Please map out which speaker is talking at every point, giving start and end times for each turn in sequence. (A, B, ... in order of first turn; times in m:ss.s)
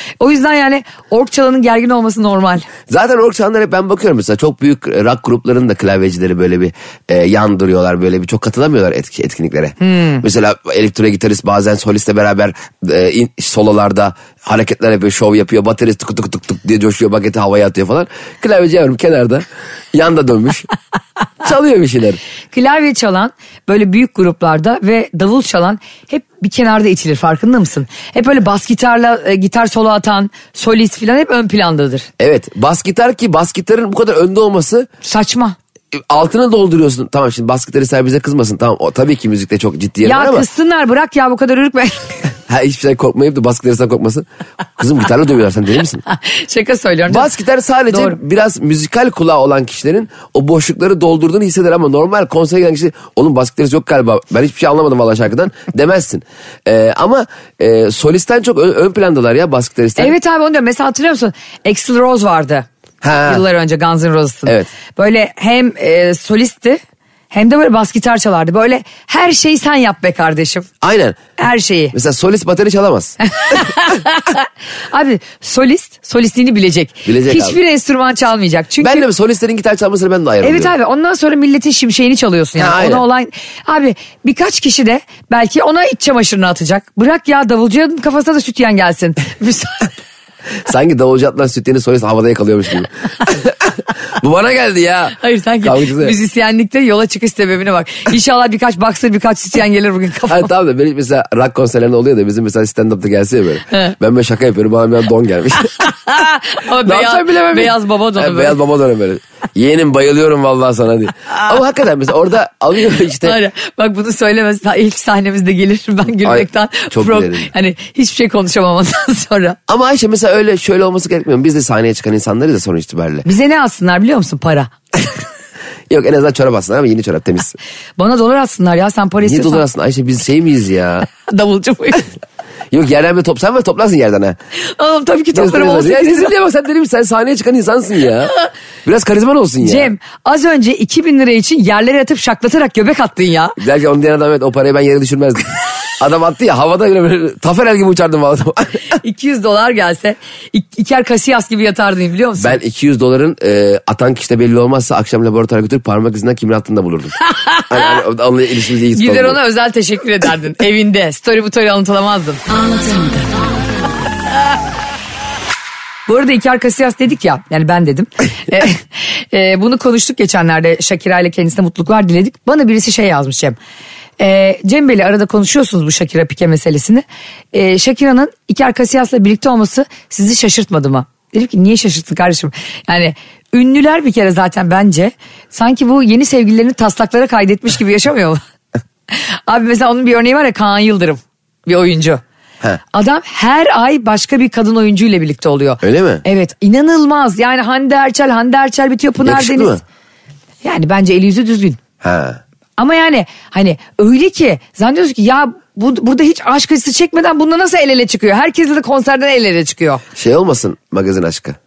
0:00.2-0:02.7 A
0:02.9-0:20.7 B
0:09.8-0:10.2 A
0:21.4-0:22.2 B
0:22.5-0:32.1 A
0:32.2-0:34.9 B
0:35.0-0:35.6 A
0:35.9-0:40.4 B
0:40.0-0:42.1 A
0:42.5-0:44.2 B
0:44.8-0:46.0 B
0:46.1-0:47.3 A
0:47.1-1:00.1 B
0:47.9-0:48.2 A
1:00.0-1:02.6 A
1:03.0-1:03.4 B
1:03.2-1:06.8 A
1:07.3-1:10.7 A
1:10.8-1:11.2 B
1:11.4-1:11.9 A
1:11.9-1:13.2 B
1:13.2-1:19.0 A
1:17.0-1:17.6 B
1:18.8-1:20.7 B
1:20.4-1:29.9 A
1:22.6-1:23.0 B
1:30.6-1:36.1 B
1:35.2-1:40.5 A
1:40.3-1:45.7 B
1:45.8-1:48.6 A
1:46.8-1:53.4 B
1:53.2-1:59.6 A
1:56.2-1:57.5 B
1:59.7-2:03.2 B
2:03.2-2:05.1 A
2:05.9-2:07.6 B
2:08.0-2:09.6 A
2:09.2-2:11.1 B
2:11.1-2:12.1 A
2:12.7-2:14.4 B
2:14.6-2:16.3 A
2:15.3-2:18.3 B
2:18.8-2:19.9 B
2:19.6-2:23.6 A
2:23.6-2:28.9 B
2:29.0-2:32.6 A
2:32.4-2:37.2 B
2:37.3-2:37.9 A
2:37.7-2:39.4 B
2:38.9-2:43.0 A
2:46.1-2:53.6 A
2:54.2-3:08.4 A
3:09.1-3:12.2 A
3:12.9-3:19.8 A
3:15.8-3:16.2 B
3:19.2-3:19.8 B
3:20.6-3:21.8 A
3:22.0-3:22.4 B
3:22.8-3:30.0 A
3:30.1-3:31.6 B